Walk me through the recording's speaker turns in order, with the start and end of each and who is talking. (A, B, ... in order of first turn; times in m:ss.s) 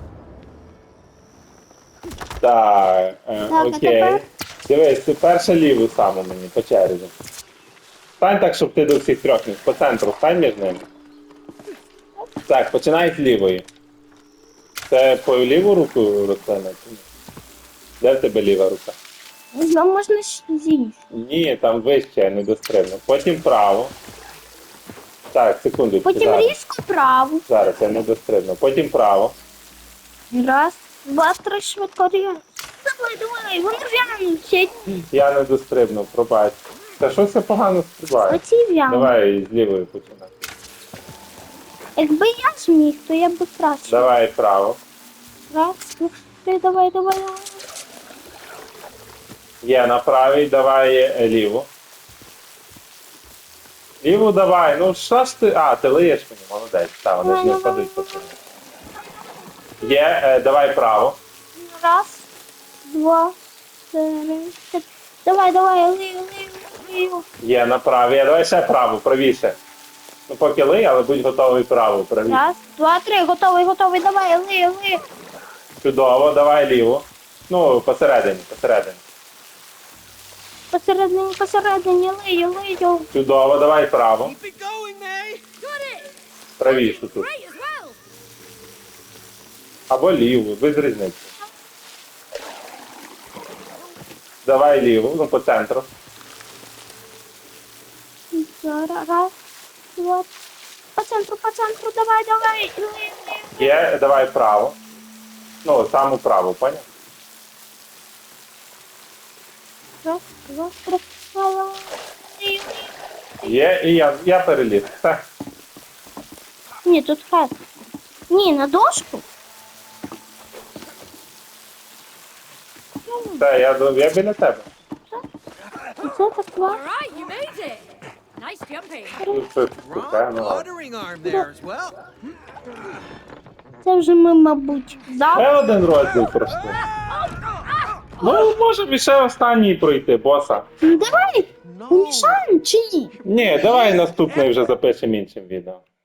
0:02.4-0:07.1 A
0:03.5-0:04.2 B
0:08.2-0:10.9 A
0:12.5-0:13.7 A
0:14.9-0:17.0 A
0:18.0-0:19.0 A
0:19.5-0:21.0 B
0:21.1-0:24.0 A
0:25.3-0:26.6 A
0:26.0-0:27.4 B
0:27.5-0:29.4 A
0:30.3-0:34.7 B
0:35.1-0:40.4 A
0:38.3-0:39.1 B
0:42.0-0:44.1 B
0:43.9-0:44.8 A
0:45.5-0:47.6 B
0:49.6-0:51.7 A
0:54.0-0:58.3 A
0:57.2-0:58.2 B
0:59.8-1:01.2 A
1:01.6-1:02.3 B
1:02.9-1:03.4 B
1:03.9-1:07.2 B
1:07.4-1:09.6 A
1:10.3-1:12.4 A
1:12.3-1:15.0 B
1:15.8-1:19.0 A
1:20.7-1:23.1 B
1:23.1-1:24.4 A
1:24.3-1:25.4 C
1:25.6-1:28.0 D
1:26.6-1:27.3 A
1:29.9-1:31.3 A
1:34.4-1:35.9 A
1:38.3-1:39.3 B
1:40.0-1:40.3 B
1:41.0-1:43.8 B
1:43.6-1:44.8 A
1:45.6-1:46.8 A
1:50.0-1:53.6 B
1:53.4-1:55.3 A
1:56.8-1:57.5 B
1:58.3-1:59.2 B
2:03.1-2:03.4 B
2:03.4-2:04.7 A
2:06.0-2:06.8 B
2:06.6-2:09.2 D
2:09.3-2:10.7 A
2:09.8-2:12.1 C
2:13.8-2:15.5 B
2:15.3-2:16.8 A
2:16.7-2:18.5 D
2:18.2-2:20.7 A
2:20.8-2:23.2 B
2:21.6-2:22.4 C
2:23.2-2:25.8 A
2:23.5-2:24.6 C